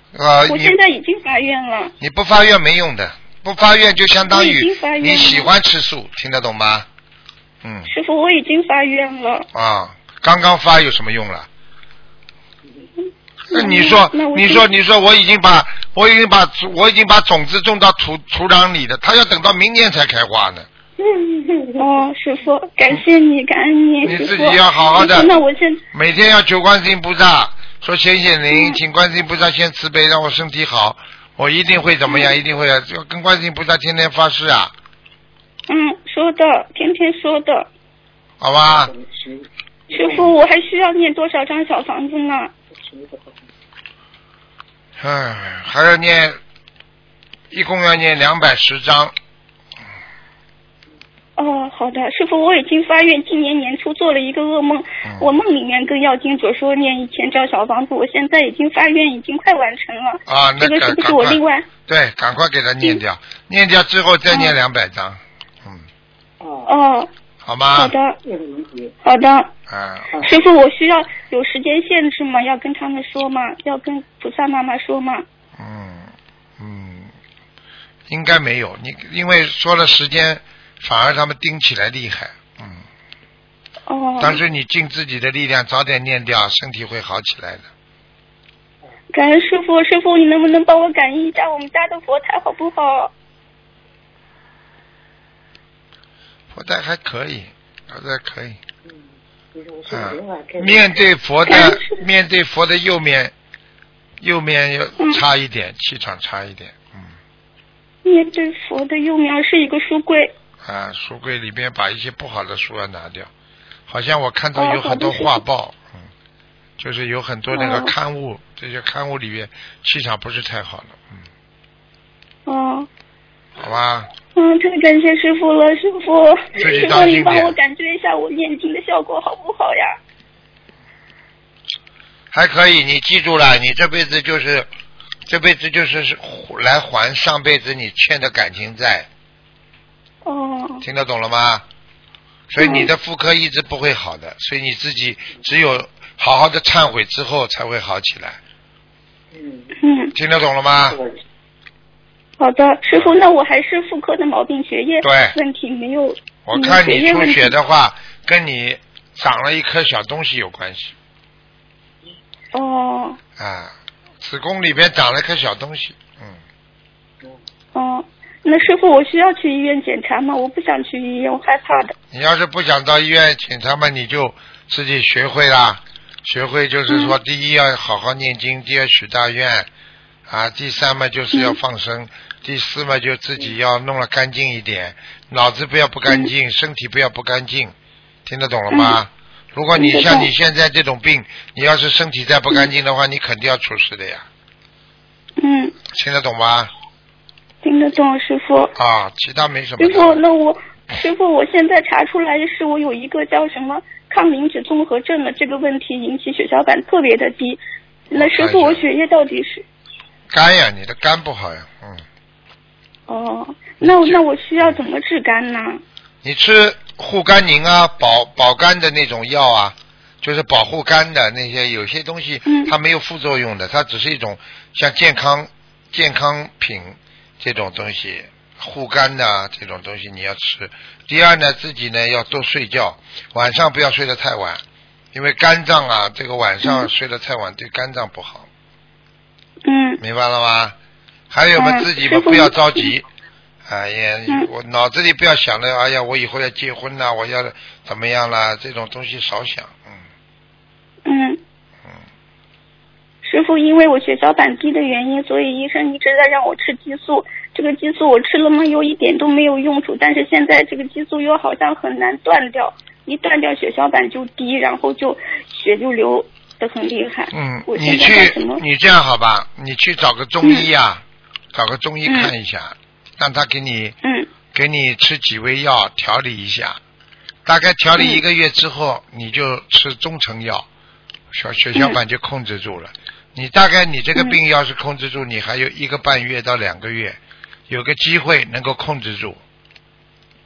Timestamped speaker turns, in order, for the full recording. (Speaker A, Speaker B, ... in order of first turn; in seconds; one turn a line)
Speaker A: 0.1-0.8
Speaker B: 0.5-1.9
Speaker A: 2.0-6.9
Speaker B: 4.3-5.5
Speaker A: 7.6-7.9
Speaker B: 7.9-9.5
Speaker A: 9.5-11.5
Speaker B: 13.5-14.7
Speaker A: 13.5-20.7
Speaker C: 21.0-21.9
Speaker B: 21.8-25.8
Speaker A: 24.0-25.3
Speaker A: 25.9-34.7
Speaker B: 28.5-28.8
Speaker B: 35.7-37.7
Speaker A: 38.4-38.9
Speaker C: 38.7-40.3
Speaker B: 39.9-42.5
Speaker C: 42.7-43.4
Speaker A: 45.0-46.4
Speaker A: 47.5-49.1
Speaker B: 51.4-61.7
Speaker A: 55.0-55.4
Speaker A: 60.3-65.8
Speaker C: 66.4-66.7
Speaker B: 66.7-67.1
Speaker A: 67.5-67.9
Speaker B: 67.7-68.2
Speaker C: 68.2-69.0
Speaker B: 69.0-69.5
Speaker A: 69.7-70.1
Speaker B: 70.2-75.2
Speaker A: 75.6-77.1
Speaker A: 78.1-82.8
Speaker B: 83.9-84.4
Speaker A: 84.2-87.7
Speaker B: 89.1-93.1
Speaker A: 96.5-98.6
Speaker C: 98.8-100.9
Speaker A: 99.9-103.3
Speaker B: 101.5-102.0
Speaker A: 104.2-107.1
Speaker B: 108.0-110.3
Speaker A: 110.6-113.3
Speaker A: 113.9-116.1
Speaker B: 114.6-115.4
Speaker A: 116.8-121.2
Speaker B: 117.5-117.9
Speaker B: 122.5-122.9
Speaker A: 123.6-124.1
Speaker B: 124.3-130.0
Speaker A: 126.6-127.6
Speaker A: 132.3-134.7
Speaker A: 135.3-139.1
Speaker B: 140.2-140.8
Speaker A: 140.8-141.6
Speaker A: 142.5-148.4
Speaker B: 142.6-142.9
Speaker C: 149.3-149.7
Speaker B: 149.8-150.1
Speaker A: 150.2-151.0
Speaker C: 150.9-151.2
Speaker B: 152.4-157.6
Speaker A: 155.0-155.4
Speaker A: 156.5-160.9
Speaker B: 162.5-163.2
Speaker A: 163.4-166.4
Speaker B: 167.7-171.9
Speaker A: 172.1-179.7
Speaker B: 176.9-177.2
Speaker A: 180.3-187.7
Speaker B: 181.3-181.6
Speaker A: 188.3-194.2
Speaker B: 188.7-189.0
Speaker B: 189.8-190.3
Speaker B: 195.4-195.8
Speaker A: 195.9-196.7
Speaker B: 197.6-198.7
Speaker A: 198.8-200.2
Speaker B: 199.8-209.7
Speaker A: 208.1-208.8
Speaker A: 210.3-212.0
Speaker B: 213.1-215.8
Speaker A: 213.8-214.8
Speaker A: 216.2-234.6
Speaker B: 222.5-222.7
Speaker A: 235.1-238.5
Speaker B: 239.7-240.0
Speaker A: 240.0-240.8
Speaker A: 241.3-243.1
Speaker B: 241.6-242.9
Speaker A: 243.7-250.0
Speaker B: 251.1-251.4
Speaker B: 253.2-268.6
Speaker A: 267.3-273.9
Speaker B: 272.1-272.3
Speaker B: 274.0-274.3
Speaker A: 274.5-276.8
Speaker A: 277.5-280.7
Speaker A: 281.3-287.2
Speaker A: 287.7-289.4